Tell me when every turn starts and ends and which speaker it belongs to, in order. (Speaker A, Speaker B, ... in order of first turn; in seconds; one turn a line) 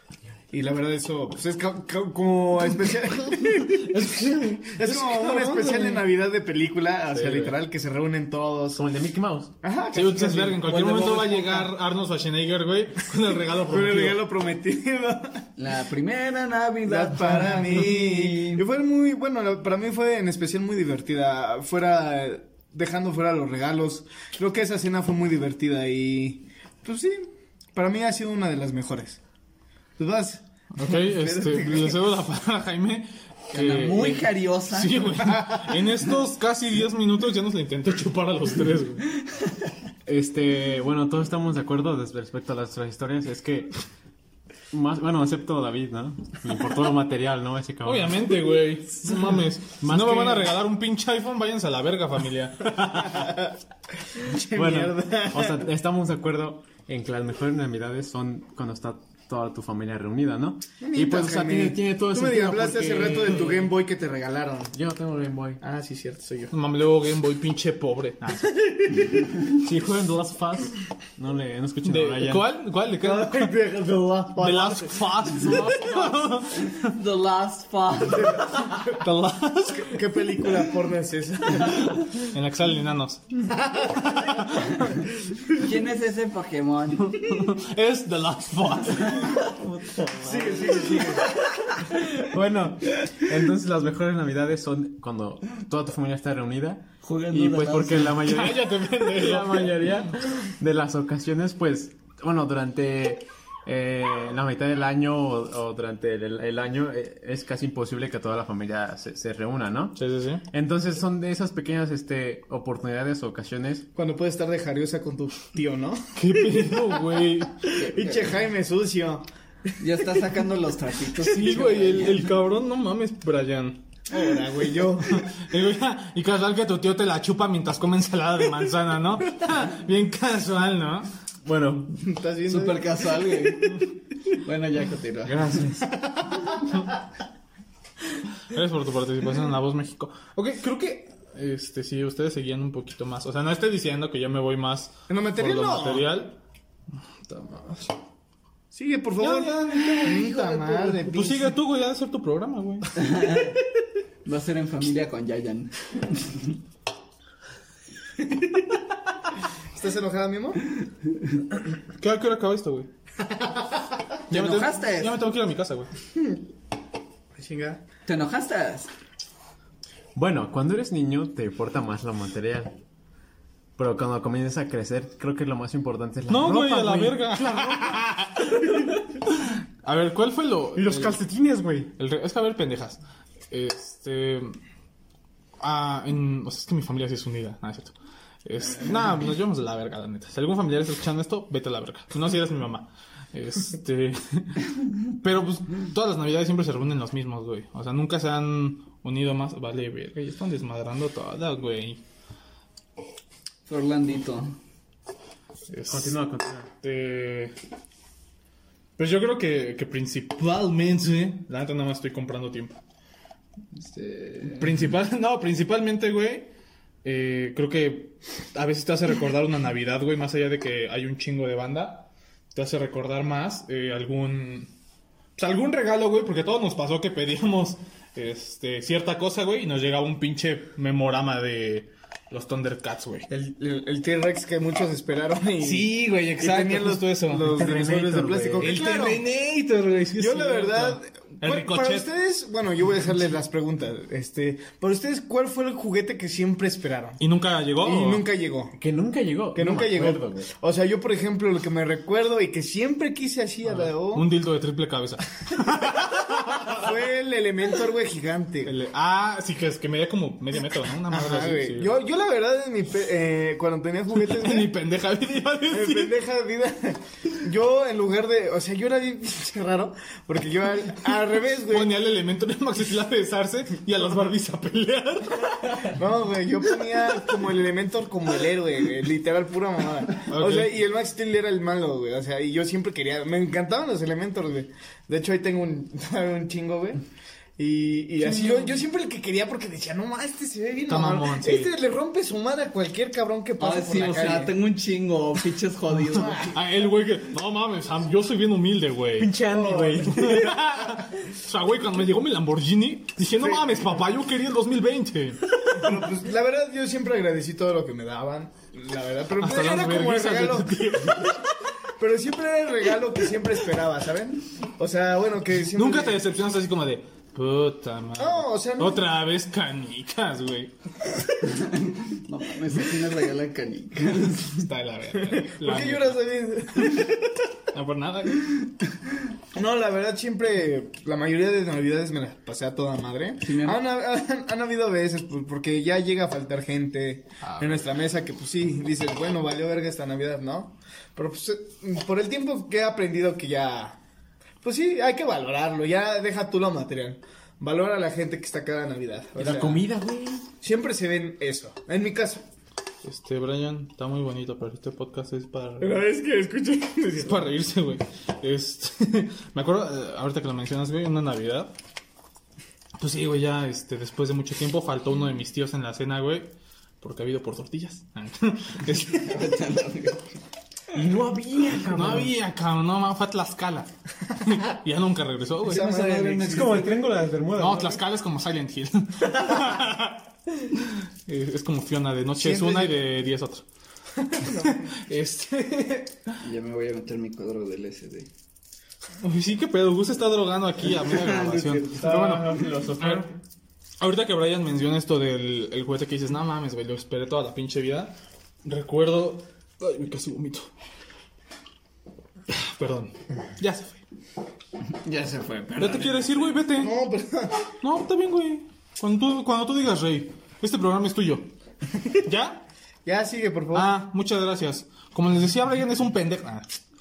Speaker A: 0.5-4.1
Speaker B: 3.9-6.0
Speaker A: 4.6-8.8
Speaker B: 7.1-7.5
Speaker B: 8.8-9.5
Speaker A: 9.6-11.4
Speaker C: 9.9-14.2
Speaker A: 13.7-15.4
Speaker D: 15.6-18.6
Speaker A: 16.9-29.2
Speaker A: 30.0-32.0
Speaker C: 30.7-39.1
Speaker D: 33.5-35.2
Speaker A: 35.4-35.7
Speaker B: 40.1-43.7
Speaker B: 44.7-48.5
Speaker C: 47.8-53.4
Speaker B: 49.0-50.5
Speaker A: 54.1-55.6
Speaker B: 54.5-63.8
Speaker A: 60.8-64.7
Speaker B: 64.7-65.6
Speaker A: 65.6-66.5
Speaker C: 66.5-68.5
Speaker A: 68.7-69.1
Speaker B: 69.6-72.5
Speaker C: 71.8-73.5
Speaker A: 73.0-75.8
Speaker C: 74.4-76.9
Speaker B: 75.4-76.1
Speaker D: 76.6-78.7
Speaker A: 78.1-79.0
Speaker C: 79.0-80.0
Speaker A: 79.7-82.1
Speaker C: 82.2-83.4
Speaker A: 83.5-84.4
Speaker C: 84.1-84.9
Speaker D: 85.5-87.4
Speaker C: 87.1-89.4
Speaker B: 89.6-91.1
Speaker A: 90.1-91.3
Speaker B: 91.9-110.0
Speaker D: 97.0-98.3
Speaker C: 98.1-100.0
Speaker C: 110.0-110.4
Speaker B: 110.5-113.8
Speaker A: 114.0-119.3
Speaker C: 116.2-117.6
Speaker D: 117.8-118.4
Speaker D: 119.8-122.3
Speaker C: 121.2-123.8
Speaker A: 124.1-125.3
Speaker C: 125.0-131.1
Speaker B: 131.4-131.9
Speaker A: 132.0-133.5
Speaker D: 132.5-133.9
Speaker D: 134.4-135.6
Speaker B: 135.3-135.8
Speaker A: 135.9-136.7
Speaker C: 138.5-146.4
Speaker A: 145.1-146.1
Speaker C: 147.3-147.9
Speaker A: 148.7-151.5
Speaker C: 149.2-152.9
Speaker D: 153.0-153.6
Speaker D: 154.2-156.6
Speaker A: 159.7-160.6
Speaker C: 162.0-162.9
Speaker A: 163.2-163.7
Speaker C: 164.3-165.9
Speaker D: 164.3-165.2
Speaker A: 167.3-167.8
Speaker D: 168.1-168.9
Speaker B: 170.2-172.8
Speaker B: 173.8-178.1
Speaker C: 176.3-178.9
Speaker C: 179.8-181.2
Speaker B: 180.8-181.9
Speaker C: 182.0-184.6
Speaker C: 185.6-187.9
Speaker C: 188.4-202.0
Speaker D: 203.7-204.6
Speaker C: 205.7-206.2
Speaker B: 205.9-206.7
Speaker C: 206.8-207.5
Speaker C: 209.0-212.8
Speaker D: 213.7-214.7
Speaker C: 214.5-216.5
Speaker C: 217.0-224.7
Speaker C: 225.4-233.3
Speaker A: 233.3-239.2
Speaker C: 235.6-237.6
Speaker B: 237.5-238.8
Speaker C: 238.6-242.1
Speaker A: 240.2-247.2
Speaker C: 247.2-248.2
Speaker A: 247.8-248.8
Speaker B: 248.8-250.5
Speaker A: 249.5-254.3
Speaker C: 253.7-256.9
Speaker A: 255.9-258.7
Speaker C: 258.6-261.9
Speaker A: 261.1-264.7
Speaker C: 264.1-266.1
Speaker A: 265.7-271.9
Speaker C: 271.7-275.9
Speaker A: 275.8-287.0
Speaker C: 280.3-280.8
Speaker A: 287.6-294.5
Speaker D: 288.2-288.7
Speaker C: 290.9-291.7
Speaker D: 293.6-296.5
Speaker A: 296.1-296.6
Speaker C: 296.5-299.4
Speaker B: 299.2-300.5
Speaker A: 299.4-300.9
Speaker C: 300.0-305.9
Speaker A: 303.3-304.0
Speaker A: 305.7-311.4
Speaker C: 309.4-311.5
Speaker A: 312.0-316.2
Speaker C: 315.6-320.7
Speaker A: 318.2-319.0
Speaker D: 321.4-324.6
Speaker C: 324.6-326.2
Speaker A: 325.5-327.4
Speaker C: 327.7-328.6
Speaker A: 329.5-344.0
Speaker D: 333.4-333.8
Speaker C: 337.4-337.9
Speaker A: 344.6-349.9
Speaker B: 349.4-350.5
Speaker A: 350.6-352.4
Speaker C: 353.0-356.1
Speaker A: 355.8-357.5
Speaker C: 357.2-361.7
Speaker C: 363.0-369.4
Speaker D: 369.1-370.3
Speaker B: 370.9-372.3
Speaker C: 371.9-373.9
Speaker C: 374.4-375.9
Speaker A: 375.6-376.9
Speaker D: 375.7-377.0
Speaker B: 376.5-378.0
Speaker C: 377.6-380.2
Speaker C: 380.9-383.6
Speaker A: 382.4-383.0
Speaker A: 384.2-384.9
Speaker C: 384.6-386.4
Speaker D: 386.4-388.3
Speaker C: 389.2-393.3
Speaker D: 391.0-392.2
Speaker B: 391.9-393.4
Speaker C: 394.0-400.7
Speaker C: 402.5-404.0
Speaker D: 405.0-406.3
Speaker C: 405.8-406.9
Speaker A: 406.8-407.7
Speaker C: 407.8-411.5
Speaker C: 412.2-412.6
Speaker A: 413.1-413.9
Speaker C: 413.7-416.7